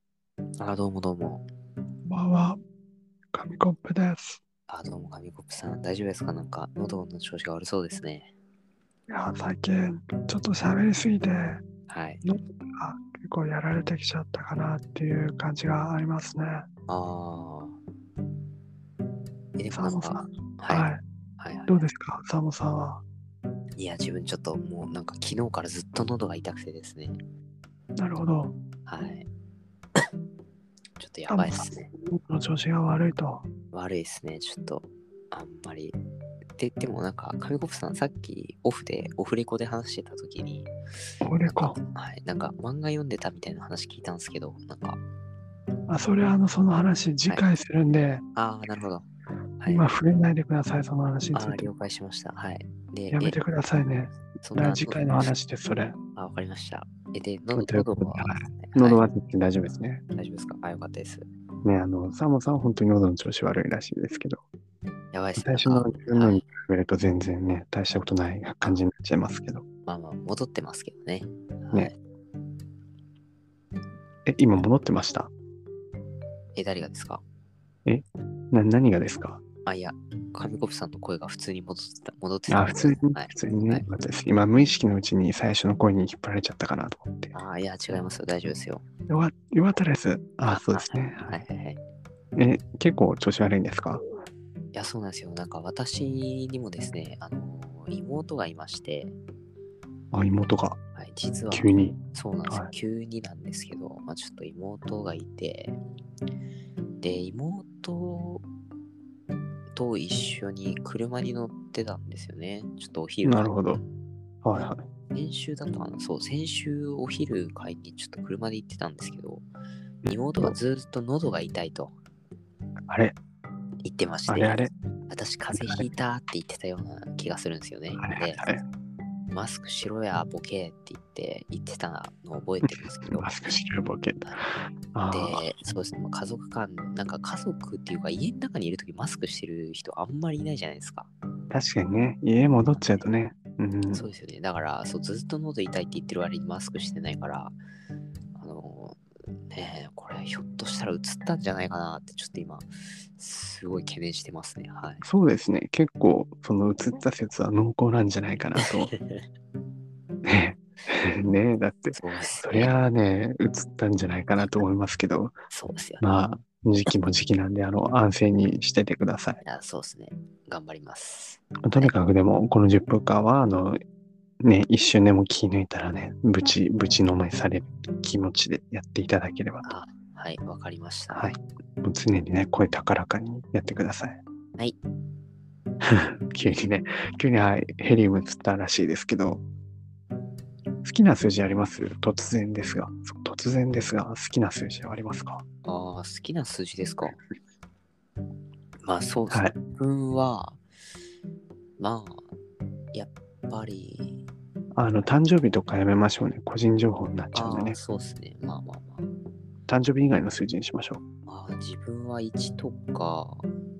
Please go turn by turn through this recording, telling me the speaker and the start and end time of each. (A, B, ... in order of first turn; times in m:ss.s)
0:00.6-0:01.5 A
0:02.0-0:02.6 B
0:03.3-0:04.4 B
0:04.7-0:08.3 A
0:09.1-0:11.6 B
0:11.9-0:12.2 A
0:12.2-0:16.6 B
0:16.9-0:17.8 A
0:19.6-0:21.8 A
0:19.7-0:21.0 B
0:21.7-0:23.0 B
0:23.8-0:27.2 A
0:28.0-0:28.5 B
0:28.8-0:29.3 A
0:31.0-0:31.9 A
0:31.3-0:33.4 B
0:33.7-0:36.0 A
0:36.6-0:40.7 A
0:41.2-0:41.8 B
0:41.4-0:45.0 A
0:45.9-0:48.2 B
0:48.3-0:49.1 A
0:49.6-0:49.9 A
0:49.7-0:51.7 B
0:51.3-0:53.4 A
0:53.1-0:56.0 B
0:54.4-0:55.3 A
0:56.1-0:59.0 A
0:57.5-1:00.0 B
1:00.1-1:01.3 A
1:01.6-1:04.4 B
1:05.1-1:06.4 A
1:05.4-1:09.6 B
1:09.8-1:12.0 A
1:14.2-1:15.3 B
1:16.5-1:17.2 A
1:17.8-1:19.4 B
1:19.6-1:23.9 A
1:22.5-1:27.3 B
1:27.3-1:28.8 A
1:29.1-1:31.4 B
1:30.5-1:31.8 A
1:32.4-1:34.0 B
1:34.7-1:39.1 A
1:40.1-1:40.8 B
1:41.0-1:45.8 A
1:41.5-1:42.7 B
1:47.0-1:48.4 A
1:49.7-1:53.6 A
1:53.2-1:53.8 B
1:54.4-1:54.8 B
1:55.1-1:59.4 A
2:00.0-2:00.6 B
2:00.1-2:02.0 A
2:02.9-2:03.2 B
2:03.8-2:08.5 A
2:04.3-2:04.7 B
2:05.5-2:05.8 B
2:08.0-2:08.6 B
2:09.3-2:13.4 A
2:12.6-2:15.4 B
2:15.1-2:21.1 A
2:21.5-2:24.0 B
2:22.7-2:23.0 A
2:23.9-2:27.6 A
2:28.4-2:29.0 A
2:29.5-2:35.0 A
2:35.0-2:38.9 B
2:38.6-2:39.2 A
2:40.2-2:45.4 B
2:41.9-2:42.7 A
2:45.5-2:46.1 A
2:46.0-2:49.4 B
2:49.4-2:51.9 A
2:51.6-2:53.8 B
2:54.4-2:59.7 B
2:59.6-3:01.3 A
3:01.1-3:04.2 B
3:05.8-3:09.4 B
3:10.8-3:15.4 B
3:15.6-3:17.2 A
3:18.8-3:20.6 A
3:21.8-3:22.3 A
3:22.9-3:24.2 A
3:24.7-3:27.8 B
3:27.3-3:29.1 A
3:29.7-3:31.0 B
3:31.3-3:33.4 A